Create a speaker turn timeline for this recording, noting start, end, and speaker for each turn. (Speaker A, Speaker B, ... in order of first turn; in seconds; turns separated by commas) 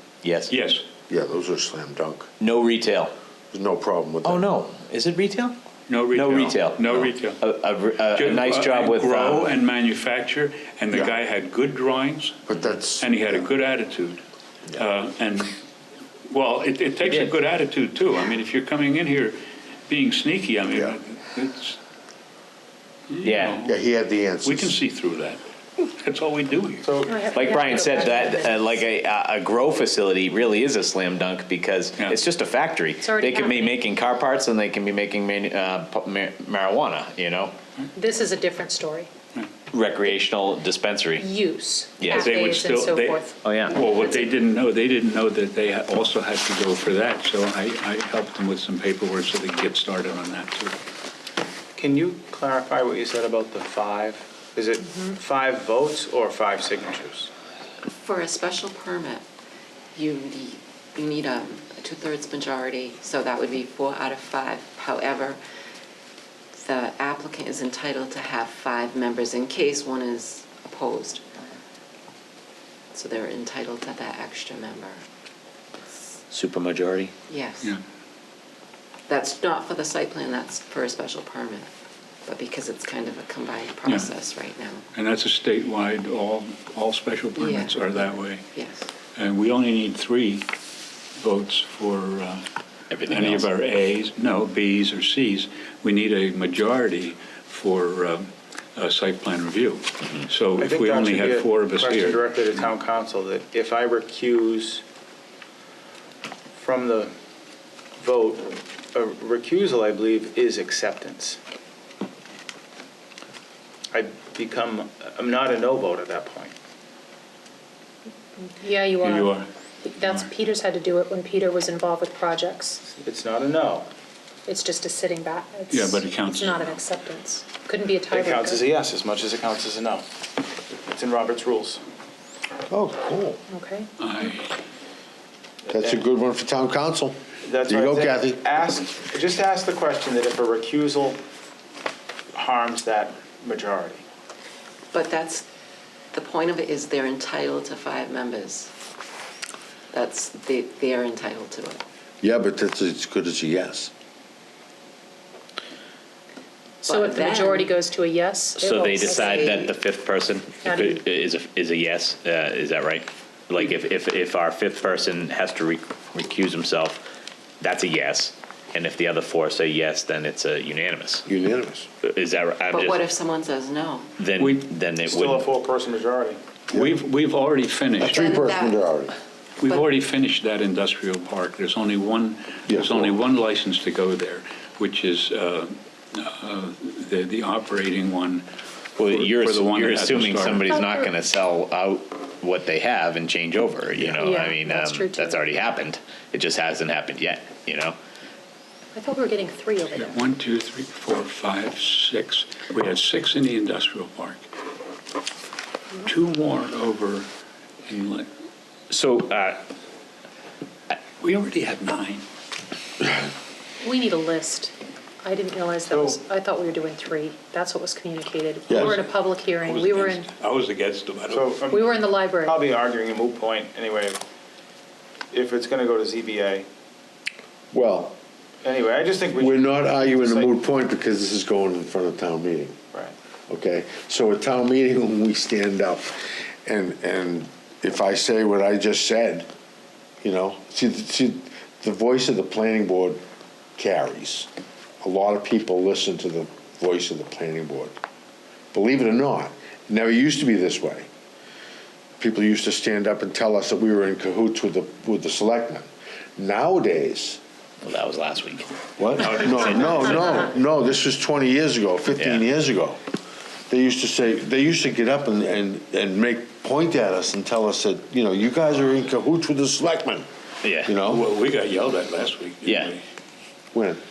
Speaker A: 0.2-0.5, Speaker B: 0.5-0.8, Speaker C: 1.1-2.3, Speaker A: 2.4-3.1, Speaker C: 3.5-4.5, Speaker A: 4.2-5.5, Speaker B: 5.9-7.4, Speaker A: 6.1-9.5, Speaker B: 8.1-12.4, Speaker C: 12.5-13.5, Speaker B: 13.0-14.2, Speaker B: 14.7-15.5, Speaker B: 16.3-21.8, Speaker B: 23.1-23.8, Speaker A: 23.2-23.6, Speaker C: 23.6-24.8, Speaker B: 24.4-26.9, Speaker D: 26.8-27.6, Speaker E: 27.0-28.8, Speaker A: 27.3-37.5, Speaker E: 33.0-33.8, Speaker E: 37.9-39.1, Speaker A: 39.7-41.2, Speaker E: 41.1-44.3, Speaker A: 42.0-42.3, Speaker B: 42.1-50.7, Speaker A: 43.4-43.8, Speaker D: 51.7-57.3, Speaker E: 54.8-55.2, Speaker F: 58.0-59.2, Speaker F: 59.9-65.4, Speaker F: 66.5-71.2, Speaker F: 72.9-75.0, Speaker A: 76.3-77.1, Speaker F: 77.3-77.7, Speaker F: 79.1-81.7, Speaker F: 82.2-84.8, Speaker B: 84.9-88.4, Speaker F: 87.3-88.9, Speaker B: 89.2-90.5, Speaker B: 91.2-92.4, Speaker A: 92.9-93.5, Speaker B: 93.0-102.4, Speaker D: 100.6-104.8, Speaker D: 106.5-107.1, Speaker D: 108.0-111.4, Speaker D: 113.9-116.5, Speaker E: 118.5-122.8, Speaker B: 119.0-119.5, Speaker B: 120.0-120.3, Speaker D: 122.9-123.9, Speaker E: 124.5-128.7, Speaker B: 125.7-126.8, Speaker D: 128.1-130.1, Speaker D: 130.8-131.8, Speaker C: 132.7-133.4, Speaker E: 133.5-133.9, Speaker B: 134.0-134.5, Speaker D: 135.6-136.0, Speaker C: 135.7-138.4, Speaker D: 137.4-141.2, Speaker D: 142.3-144.0, Speaker F: 144.9-145.4, Speaker F: 146.1-148.7, Speaker F: 149.9-151.8, Speaker C: 152.2-153.9, Speaker E: 156.8-159.6, Speaker F: 156.8-157.7, Speaker A: 158.6-167.0, Speaker F: 158.9-159.7, Speaker E: 160.6-161.0, Speaker A: 167.6-171.3, Speaker C: 171.2-171.9, Speaker A: 172.0-173.0, Speaker F: 172.7-174.1, Speaker A: 174.2-175.5, Speaker B: 174.4-174.7, Speaker D: 175.1-176.4, Speaker C: 176.7-177.0, Speaker B: 176.7-178.3, Speaker C: 178.0-179.1, Speaker F: 178.0-178.9, Speaker B: 179.6-188.4, Speaker C: 182.7-183.1, Speaker A: 189.0-197.9, Speaker B: 189.0-190.7, Speaker E: 190.7-191.1, Speaker E: 194.2-195.4, Speaker E: 198.9-200.2, Speaker B: 199.9-204.4, Speaker B: 206.0-207.3, Speaker B: 207.9-208.3, Speaker A: 208.9-209.6, Speaker B: 211.2-212.2, Speaker E: 213.8-220.3, Speaker D: 215.9-216.2, Speaker C: 218.7-219.0, Speaker B: 218.8-221.6, Speaker D: 221.3-221.9, Speaker E: 221.6-222.7, Speaker D: 222.4-224.2, Speaker D: 225.3-226.7, Speaker C: 227.7-228.2, Speaker D: 228.6-230.5, Speaker C: 229.4-232.8, Speaker C: 233.5-239.5, Speaker C: 240.2-243.2, Speaker C: 243.8-244.5, Speaker C: 245.0-247.9, Speaker C: 248.7-251.1, Speaker C: 252.2-257.4, Speaker A: 257.8-258.7, Speaker C: 259.0-263.0, Speaker B: 259.2-260.2, Speaker A: 259.3-259.8, Speaker A: 262.2-262.4, Speaker C: 263.7-270.3, Speaker A: 270.6-270.9, Speaker C: 270.8-271.3, Speaker B: 271.0-273.0, Speaker A: 272.6-272.9, Speaker C: 273.7-274.0